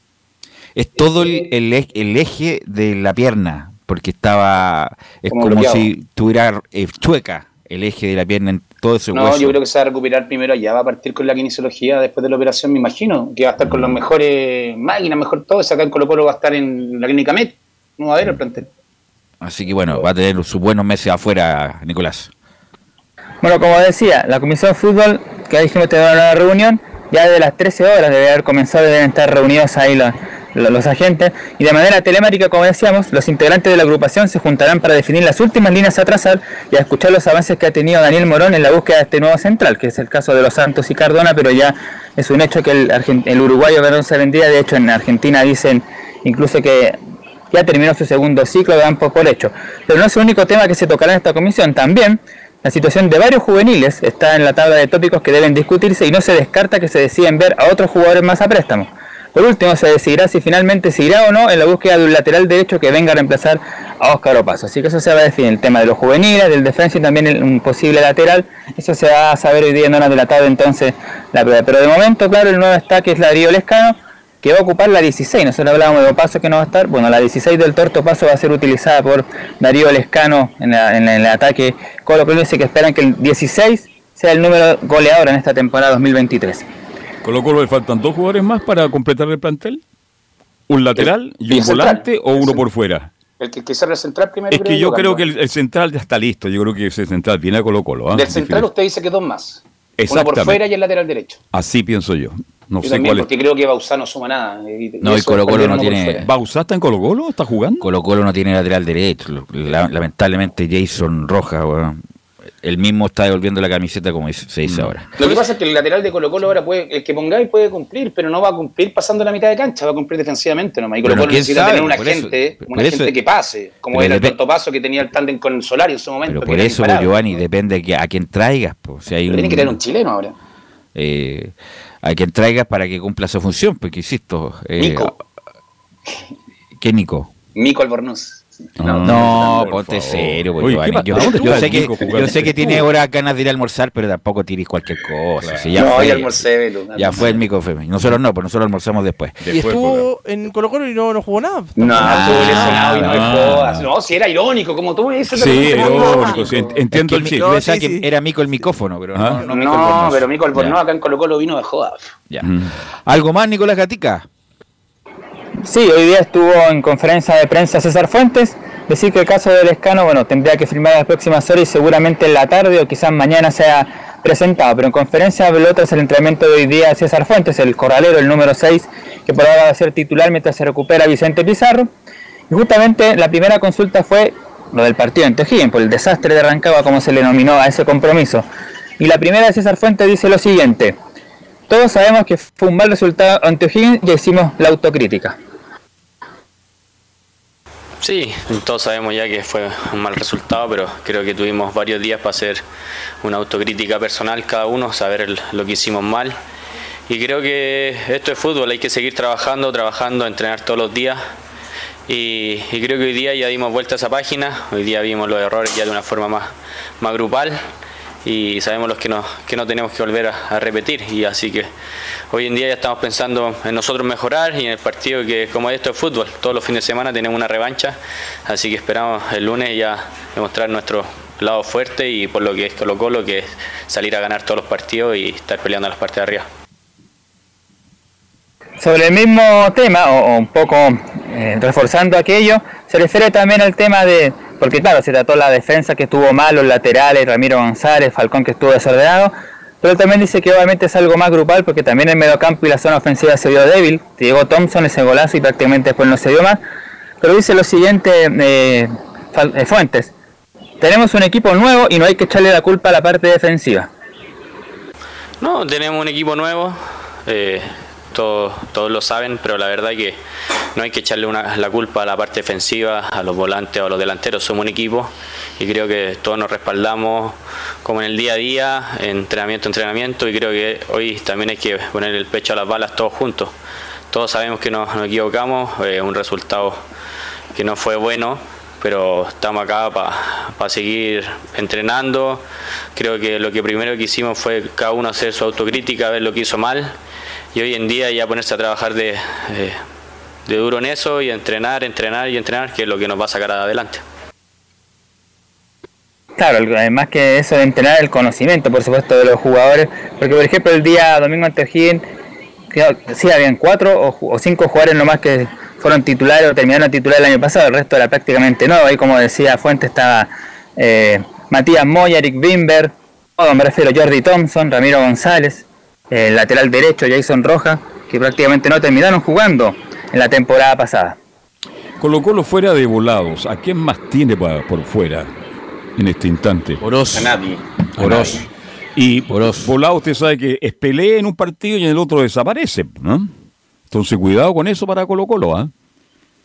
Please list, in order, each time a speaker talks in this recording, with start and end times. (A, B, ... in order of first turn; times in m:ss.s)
0:00.8-0:09.6 A
0:05.3-0:05.9 B
0:09.1-0:18.7 B
0:19.4-0:22.3 A
0:23.4-0:47.0 C
0:47.5-1:26.6 C
1:27.2-1:29.8 D
1:30.7-1:33.1 D
1:31.0-1:32.6 B
1:33.4-1:35.2 B
1:34.5-1:38.7 D
1:38.1-1:41.4 B
1:40.0-1:40.6 D
1:41.5-1:43.3 D
1:42.8-1:46.2 B
1:45.0-1:46.3 A
1:46.2-1:47.9 D
1:47.8-1:52.0 A
1:52.6-1:55.1 A
1:54.7-1:55.0 D
1:55.2-2:07.1 B
2:01.0-2:03.1 A
2:03.9-2:04.4 A
2:06.3-2:09.8 A
2:09.3-2:10.4 B
2:11.0-2:15.2 A
2:14.8-2:15.1 B
2:16.8-2:17.3 A
2:17.6-2:19.7 B
2:18.8-2:22.8 D
2:19.0-2:29.4 A
2:21.3-2:21.7 E
2:22.0-2:22.7 B
2:25.4-2:25.8 D
2:25.8-2:27.4 B
2:29.4-2:30.1 D
2:29.5-2:33.3 E
2:31.8-2:36.7 B
2:32.0-2:33.8 A
2:32.6-2:33.8 D
2:35.4-2:37.5 D
2:35.6-2:36.5 E
2:36.9-2:40.8 A
2:37.2-2:38.1 E
2:39.2-2:39.4 D
2:39.5-2:42.1 B
2:42.4-2:42.7 D
2:43.1-2:44.3 A
2:45.6-3:01.9 C
3:02.5-3:08.5 C
3:09.0-3:11.0 C
3:11.7-3:15.4 C
3:18.0-3:22.6 F
3:23.2-3:26.4 F
3:27.1-3:31.2 F
3:32.1-3:37.6 F
3:38.2-3:41.7 F
3:42.3-3:56.5 F
3:58.8-4:16.6 C
4:17.2-4:20.1 C
4:20.8-4:23.9 C
4:25.4-4:30.2 F
4:30.8-4:43.5 F
4:44.1-4:46.8 F
4:47.5-4:52.4 F
4:53.0-4:57.0 F
4:57.5-4:59.8 F
5:00.5-5:04.0 F
5:06.4-5:12.0 C
5:12.7-5:31.2 C
5:32.0-5:35.3 D
5:36.0-5:36.8 D
5:36.8-5:37.3 A
5:37.1-5:37.6 B
5:38.0-5:38.4 D
5:38.0-5:38.5 A
5:39.0-5:43.3 D
5:39.3-5:39.7 A
5:43.9-5:45.7 D